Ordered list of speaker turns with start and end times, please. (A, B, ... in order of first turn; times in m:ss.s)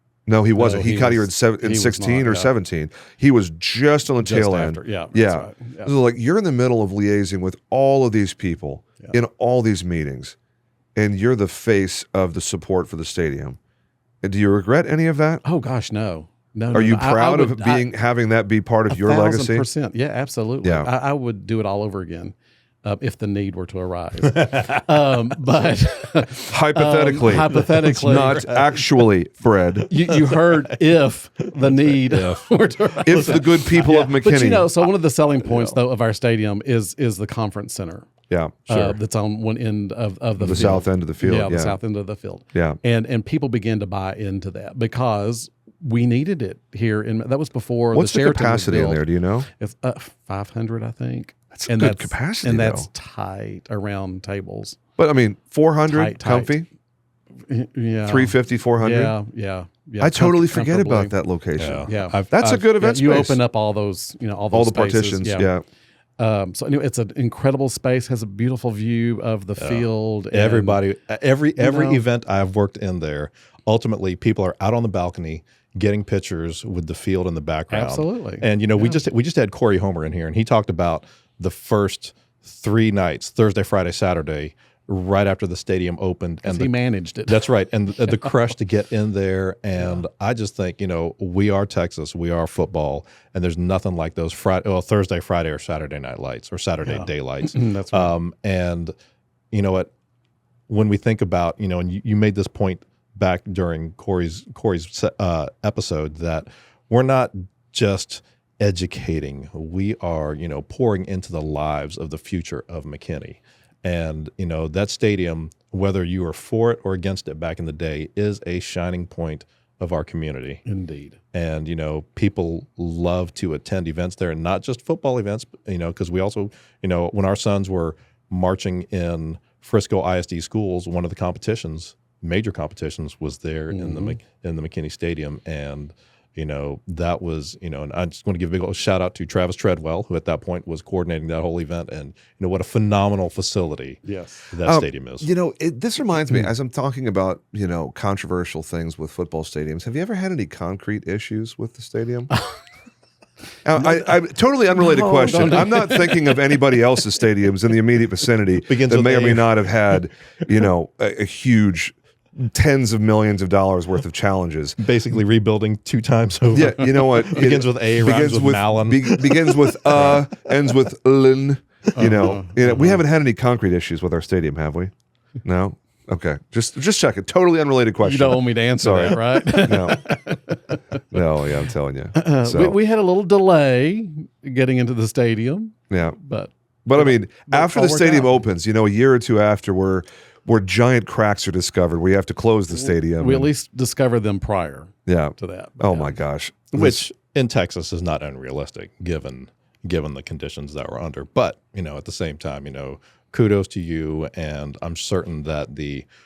0:00.3-0:10.4 A
0:00.6-0:02.5 B
0:04.2-0:05.9 B
0:11.0-0:13.6 A
0:14.2-0:15.4 A
0:15.4-0:17.9 B
0:16.7-0:19.6 A
0:18.9-0:28.8 B
0:20.6-0:20.9 A
0:24.2-0:24.8 C
0:26.5-0:29.9 A
0:27.5-0:28.0 C
0:29.9-0:38.1 B
0:30.1-0:30.9 C
0:31.5-0:32.4 C
0:33.0-0:34.7 A
0:35.4-0:35.7 C
0:38.3-0:38.9 A
0:38.7-0:54.8 B
0:40.4-0:41.8 A
0:47.9-0:49.5 A
0:51.5-0:52.9 A
0:55.0-0:56.6 A
0:55.9-0:56.6 B
0:57.5-1:01.1 B
0:58.0-0:59.1 A
1:00.0-1:03.4 A
1:01.6-1:02.7 C
1:01.8-1:05.5 B
1:04.5-1:05.6 A
1:06.2-1:10.8 B
1:09.6-1:26.7 C
1:11.6-1:12.0 B
1:17.7-1:19.0 B
1:26.4-1:27.5 B
1:27.3-1:38.9 C
1:29.8-1:30.0 B
1:36.8-1:38.2 B
1:39.5-1:39.9 C
1:40.7-2:00.6 C
2:00.6-2:01.2 B
2:01.3-2:24.0 C
2:13.7-2:14.2 B
2:24.0-2:24.5 B
2:24.5-2:25.3 C
2:24.6-2:32.3 A
2:33.6-2:44.8 A
2:33.8-2:34.1 B
2:34.8-2:36.6 B
2:38.7-2:40.0 C
2:44.8-2:50.5 C
2:46.5-2:54.9 A
2:51.9-2:53.0 B
2:55.4-3:00.2 A
2:58.0-3:01.0 B
3:01.1-3:02.8 A
3:02.1-3:08.4 B
3:05.9-3:06.2 A
3:06.8-3:13.5 A
3:12.7-3:16.1 B
3:15.1-3:17.1 A
3:16.7-3:26.0 C